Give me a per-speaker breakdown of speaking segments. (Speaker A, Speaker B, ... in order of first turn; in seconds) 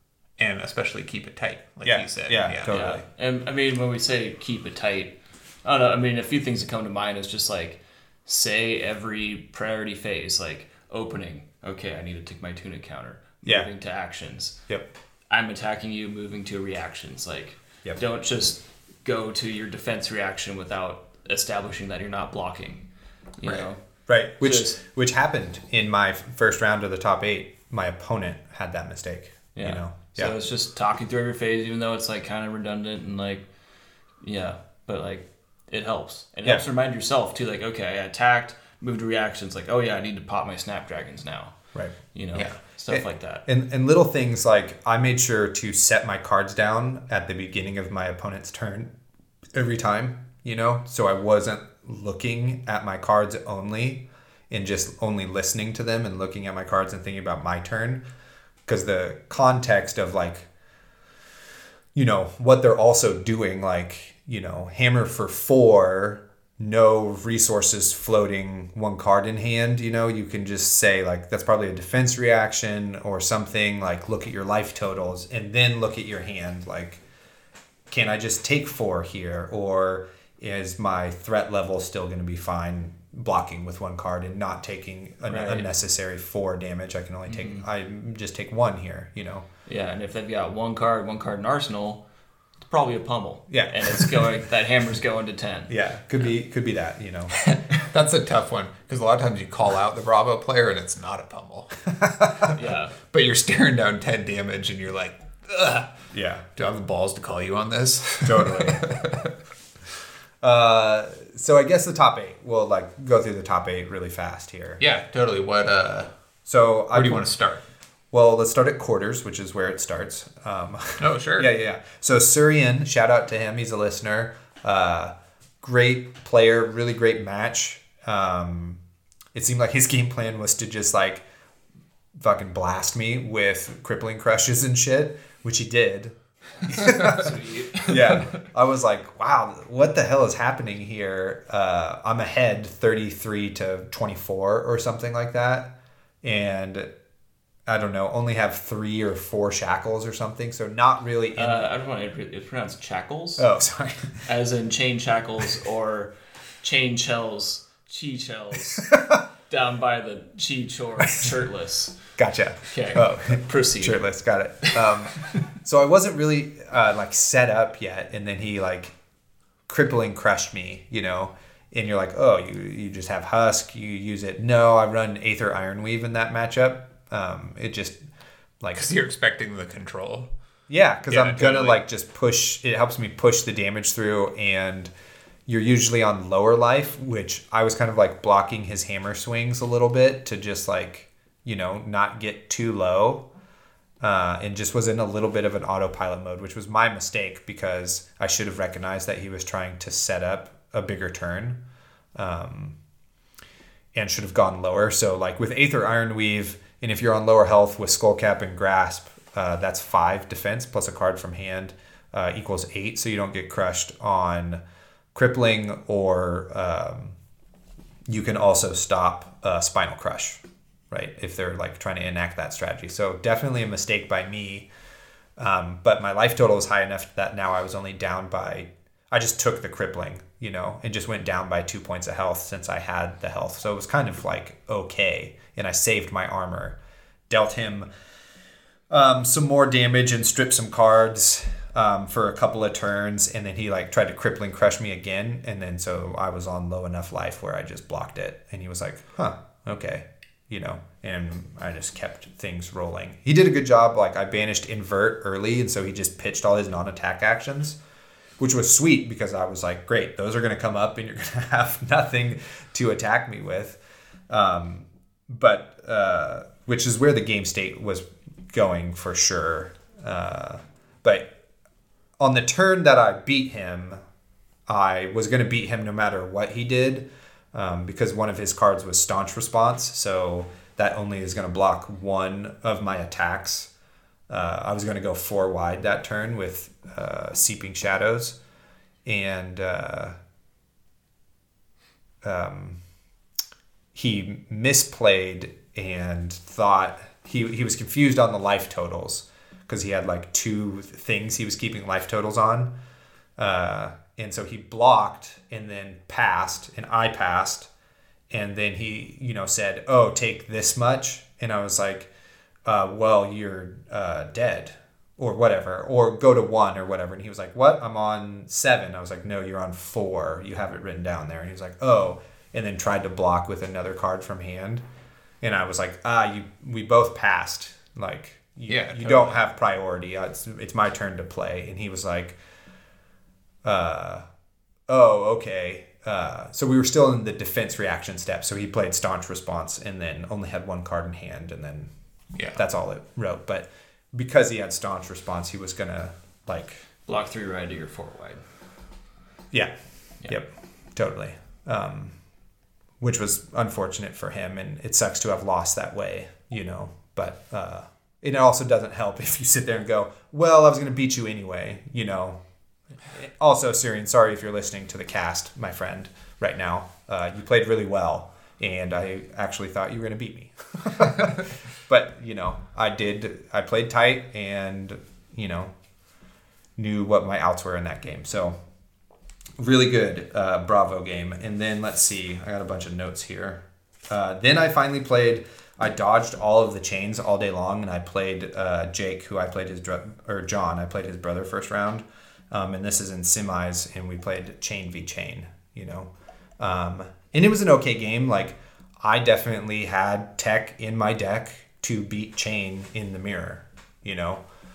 Speaker A: 0.4-3.0, 85.3-85.6, 97.4-105.9, 106.5-109.3, 114.8-116.1, 116.9-117.6, 121.0-121.5, 136.9-137.2, 178.7-180.3, 181.1-181.8, 328.7-329.4, 342.3-342.6
Speaker B: 1.8-3.0, 24.1-30.3, 42.9-48.9, 49.5-58.0, 58.6-60.5, 61.9-77.0, 77.9-89.5, 93.5-94.2, 95.7-97.3, 102.0-102.5, 106.1-106.4, 108.2-108.8, 110.4-114.8, 116.5-117.3, 118.1-128.8, 129.3-131.2, 132.1-136.1, 136.7-137.3, 137.8-146.9, 147.7-151.7, 153.4-154.2, 162.2-168.9, 169.7-178.0, 178.6-178.9, 180.7-184.9, 185.5-193.3, 194.0-201.6, 202.1-202.8, 203.9-214.6, 215.1-217.2, 218.1-224.7, 225.4-236.8, 237.3-237.9, 238.9-257.8, 258.4-271.3, 272.2-274.0, 274.7-283.7, 284.3-288.4, 289.0-290.2, 292.2-292.8, 293.9-302.7, 303.4-307.7, 308.3-312.1, 312.6-324.8, 325.4-332.4, 333.6-334.2, 334.9-341.9, 342.5-346.9, 350.2-352.1, 353.0-362.4, 363.1-375.7, 376.8-378.6, 379.6-404.4
Speaker C: 2.7-14.6, 15.3-22.9, 23.4-23.8, 24.4-24.8, 29.5-33.5, 34.2-41.5, 42.1-43.4, 85.3-85.6, 87.3-87.7, 89.7-92.0, 92.6-95.7, 102.5-102.9, 136.8-138.2, 151.3-153.5, 154.2-158.9, 159.5-162.0, 162.7-164.0, 164.6-165.4, 347.1-348.4